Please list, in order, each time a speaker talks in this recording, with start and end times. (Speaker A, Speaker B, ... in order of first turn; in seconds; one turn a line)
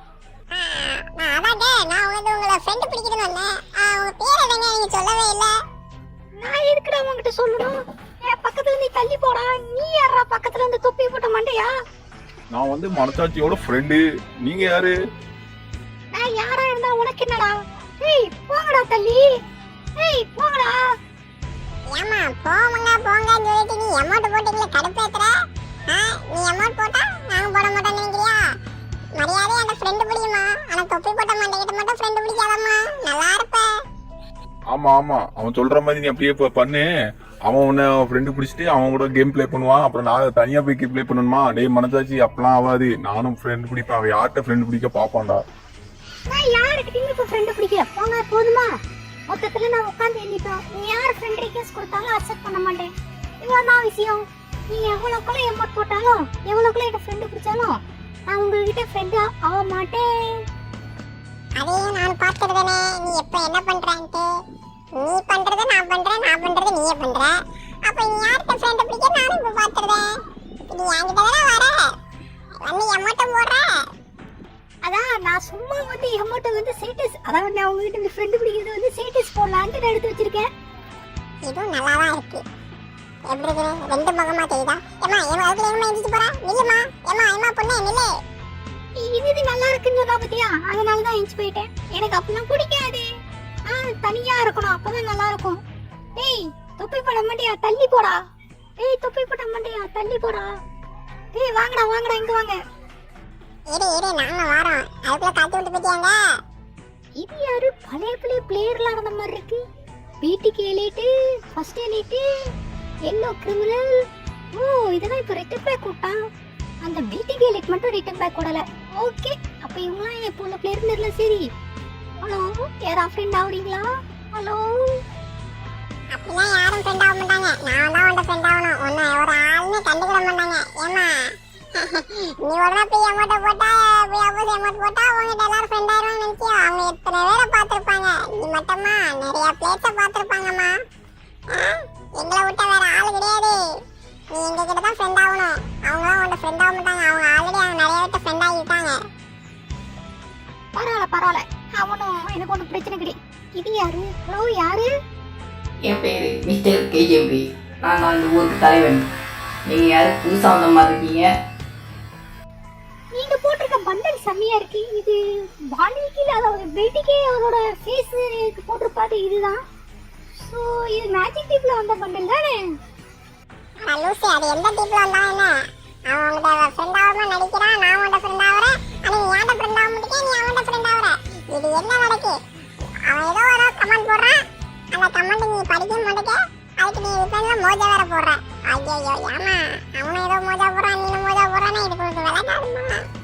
Speaker A: 0.5-5.5
Speaker B: 6.4-11.7
Speaker C: 12.5-14.9
Speaker B: 16.1-19.2
Speaker B: 20.0-20.7
Speaker A: 21.9-25.3
Speaker A: 25.9-28.4
Speaker A: 29.2-33.7
Speaker C: 34.7-36.9
Speaker C: 37.5-45.4
Speaker B: 46.3-48.7
Speaker B: 49.3-57.8
Speaker B: 58.3-60.1
Speaker A: 61.6-64.3
Speaker A: 65.0-67.3
Speaker A: 67.8-70.0
Speaker A: 70.7-71.8
Speaker A: 72.6-73.7
Speaker B: 74.8-80.5
Speaker A: 81.4-82.4
Speaker A: 83.3-88.1
Speaker B: 89.0-93.1
Speaker B: 93.7-95.6
Speaker B: 96.2-98.2
Speaker B: 98.8-100.5
Speaker B: 101.3-102.6
Speaker A: 103.7-106.2
Speaker B: 107.2-109.6
Speaker B: 110.2-112.2
Speaker B: 113.1-113.9
Speaker B: 114.5-116.2
Speaker B: 116.8-121.4
Speaker B: 122.2-125.0
Speaker A: 126.1-131.1
Speaker A: 131.8-140.7
Speaker A: 141.5-143.5
Speaker A: 144.3-149.0
Speaker B: 150.8-154.9
Speaker D: 155.8-159.1
Speaker D: 159.7-161.3
Speaker B: 163.2-165.2
Speaker B: 165.7-169.6
Speaker B: 170.4-172.6
Speaker A: 173.9-175.5
Speaker A: 176.1-182.4
Speaker A: 183.0-184.4
Speaker A: 184.9-193.0